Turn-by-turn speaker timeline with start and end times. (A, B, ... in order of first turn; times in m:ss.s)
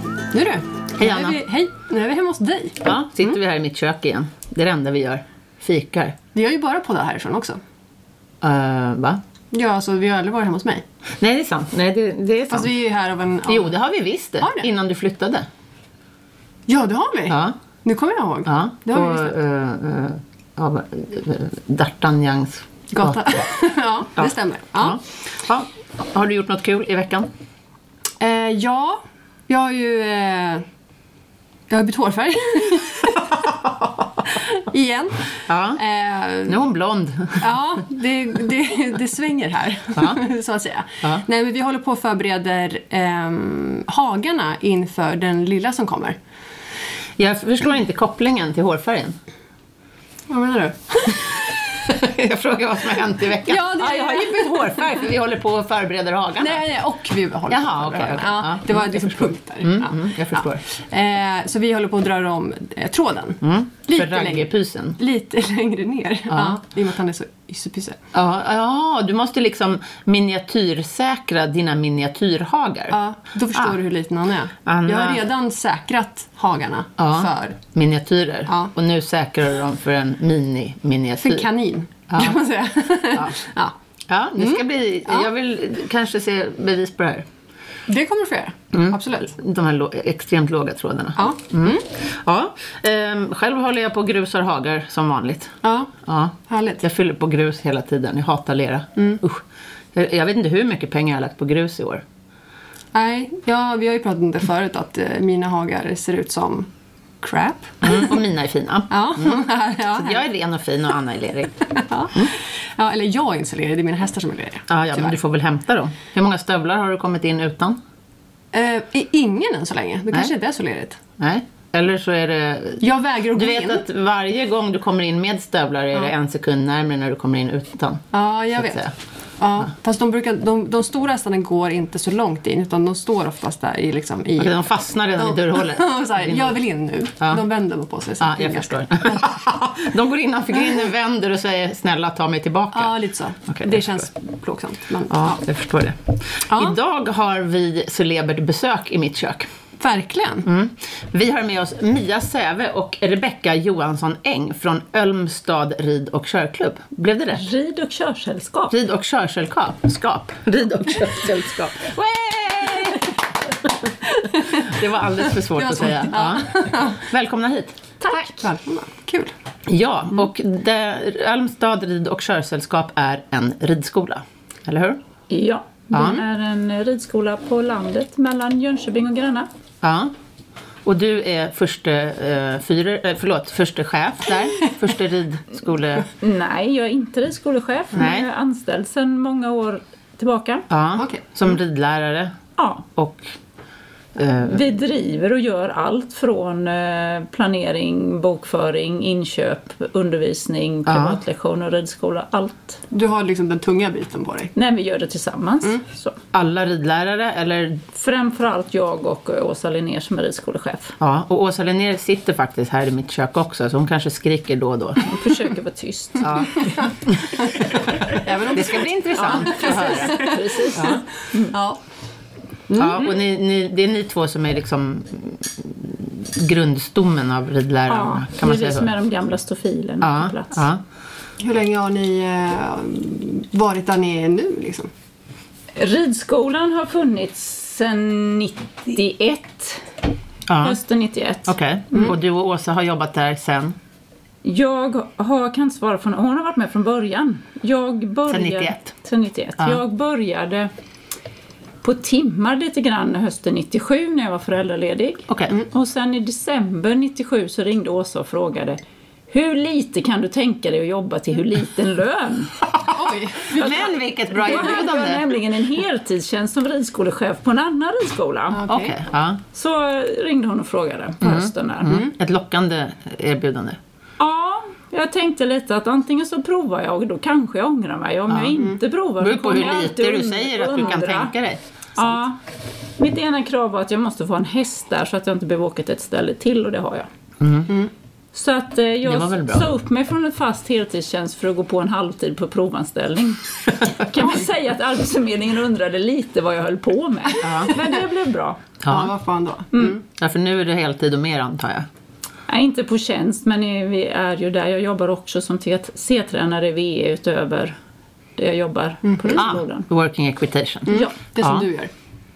0:00.3-0:03.4 A
0:01.0-0:01.4 B
0:02.8-0:06.2 B
0:06.3-0:07.6 A
0:08.4-0:09.2 B
0:09.5-0:10.8 A
0:11.2-0:12.7 B
0:12.5-0:13.7 A
0:13.4-0:15.5 B
0:14.4-0:14.7 A
0:16.7-0:19.3 A
0:17.3-0:17.6 B
0:18.4-0:23.4 B
0:22.9-0:25.0 A
0:24.2-0:27.3 B
0:28.2-0:30.6 A
0:31.7-0:33.5 A
0:34.3-0:36.6 A
0:35.5-0:35.8 B
0:36.4-0:37.6 B
0:37.4-0:46.2 A
0:39.9-0:40.2 B
0:47.2-0:49.2 B
0:50.3-0:51.3 A
0:51.1-0:56.6 B
0:53.4-0:55.0 A
0:56.4-1:08.0 A
0:57.5-1:00.6 B
1:03.4-1:05.0 B
1:06.3-1:06.6 B
1:08.1-1:13.0 B
1:12.9-1:17.6 A
1:13.5-1:13.8 B
1:14.6-1:15.2 B
1:17.0-1:21.5 B
1:21.2-1:23.7 A
1:22.1-1:22.4 B
1:23.1-1:23.4 B
1:24.1-1:27.3 B
1:24.4-1:25.3 A
1:27.9-1:29.3 A
1:28.7-1:35.5 B
1:31.2-1:31.8 A
1:35.6-1:35.9 A
1:36.0-1:42.0 B
1:36.5-1:36.8 A
1:42.9-1:46.7 A
1:47.2-1:48.2 A
1:47.8-1:52.3 B
1:48.9-1:50.2 A
1:51.8-1:55.2 A
1:54.7-1:57.8 B
1:58.5-2:01.0 A
2:01.2-2:08.9 B
2:02.8-2:03.8 A
2:08.1-2:14.6 A
2:14.4-2:16.6 B
2:15.2-2:19.2 A
2:18.2-2:24.0 B
2:22.7-2:25.4 A
2:25.1-2:29.5 B
2:26.5-2:26.7 A
2:29.8-2:30.5 A
2:30.4-2:37.4 B
2:37.3-2:38.7 C
2:38.7-2:43.1 B
2:43.8-2:47.8 B
2:44.2-2:44.7 A
2:45.5-2:47.0 A
2:48.0-2:48.4 C
2:48.3-2:49.3 A
2:49.7-2:55.0 B
2:55.3-2:59.5 C
2:55.9-2:56.2 B
2:55.9-2:56.2 A
2:59.8-3:00.1 B
3:00.8-3:06.1 B
3:06.2-3:10.6 C
3:07.9-3:08.3 B
3:10.7-3:12.3 B
3:10.9-3:11.3 A
3:12.6-3:12.8 C
3:12.9-3:13.3 B
3:14.2-3:14.7 B
3:14.4-3:22.8 C
3:20.8-3:21.2 B
3:22.9-3:24.5 A
3:24.5-3:26.2 C
3:26.3-3:27.8 B
3:27.9-3:31.0 C
3:31.0-3:35.1 B
3:35.0-3:36.7 C
3:36.2-3:41.0 B
3:37.6-3:41.8 A
3:39.3-3:41.6 C
3:42.7-3:43.1 A
3:42.8-3:48.9 B
3:47.9-3:50.7 C
3:50.0-3:50.8 B
3:51.4-3:54.9 A
3:55.8-3:59.9 C
4:00.5-4:00.8 B
4:00.6-4:02.1 C
4:01.5-4:03.8 B
4:04.4-4:10.7 C
4:08.3-4:08.9 B
4:11.8-4:22.7 C
4:15.3-4:15.6 B
4:22.7-4:25.3 B
4:22.9-4:23.9 A
4:23.5-4:28.6 C
4:28.5-4:29.0 A
4:28.7-4:29.4 B
4:29.5-4:32.0 C
4:31.2-4:33.8 B
4:31.8-4:32.1 A
4:34.2-4:41.3 C
4:38.3-4:38.6 B
4:39.2-4:42.1 B
4:42.0-4:42.4 C
4:43.0-4:47.1 C
4:47.4-4:47.7 B
4:48.3-4:58.6 C
4:49.0-4:49.7 B
4:57.4-4:57.8 B
4:58.8-4:59.1 B
4:58.8-5:00.0 A
5:00.1-5:01.9 B
5:02.5-5:07.8 C
5:08.4-5:09.9 C
5:09.0-5:09.6 A
5:09.3-5:11.7 B
5:10.9-5:11.9 A